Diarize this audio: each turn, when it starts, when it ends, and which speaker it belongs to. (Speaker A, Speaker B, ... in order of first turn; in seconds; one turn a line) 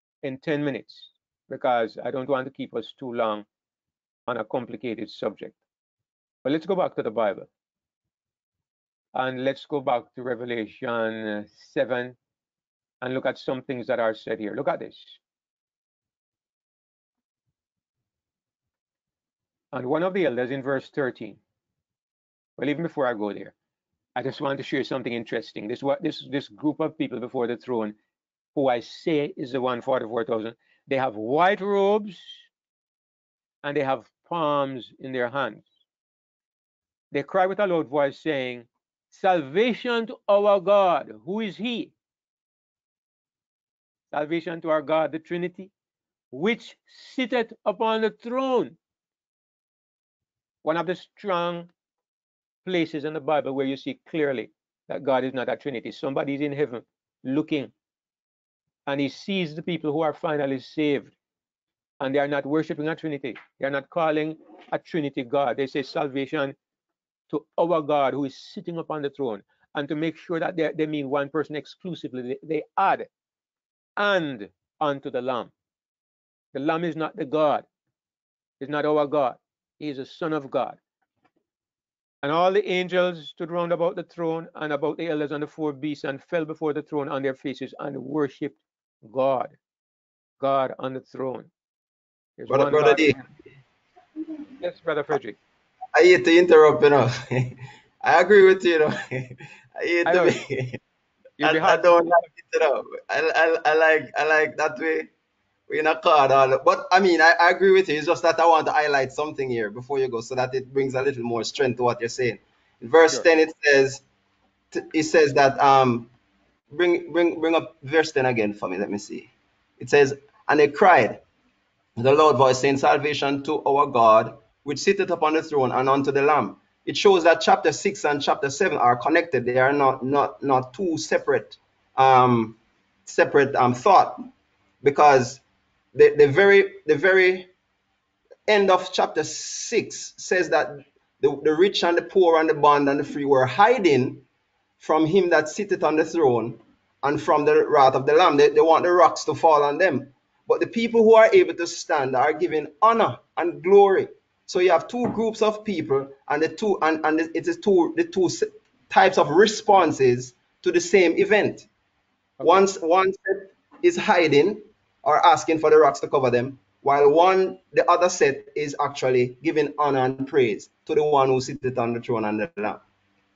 Speaker A: 0.2-3.4
Speaker A: 4.3-5.6
Speaker A: 6.4-7.5
Speaker A: 9.1-12.2
Speaker A: 13.0-15.2
Speaker A: 19.7-21.4
Speaker A: 22.6-23.5
Speaker A: 24.1-27.9
Speaker A: 28.5-32.4
Speaker A: 33.6-35.6
Speaker A: 37.1-41.9
Speaker A: 44.1-45.7
Speaker A: 46.3-48.8
Speaker A: 50.6-51.7
Speaker A: 52.6-57.7
Speaker A: 58.9-61.1
Speaker A: 62.0-66.5
Speaker A: 67.3-73.1
Speaker A: 74.0-75.5
Speaker A: 76.5-77.7
Speaker A: 78.6-80.8
Speaker A: 82.2-89.5
Speaker A: 90.4-91.5
Speaker A: 92.4-93.2
Speaker B: 92.5-93.2
Speaker A: 94.6-95.4
Speaker B: 95.9-100.8
Speaker A: 100.0-100.4
Speaker A: 101.4-102.1
Speaker B: 101.4-105.1
Speaker B: 105.7-114.0
Speaker B: 114.7-116.1
Speaker B: 116.7-121.2
Speaker B: 122.0-134.2
Speaker B: 134.8-135.4
Speaker B: 135.9-137.5
Speaker B: 138.5-144.3
Speaker B: 144.8-161.7
Speaker A: 162.4-162.6
Speaker B: 162.4-172.8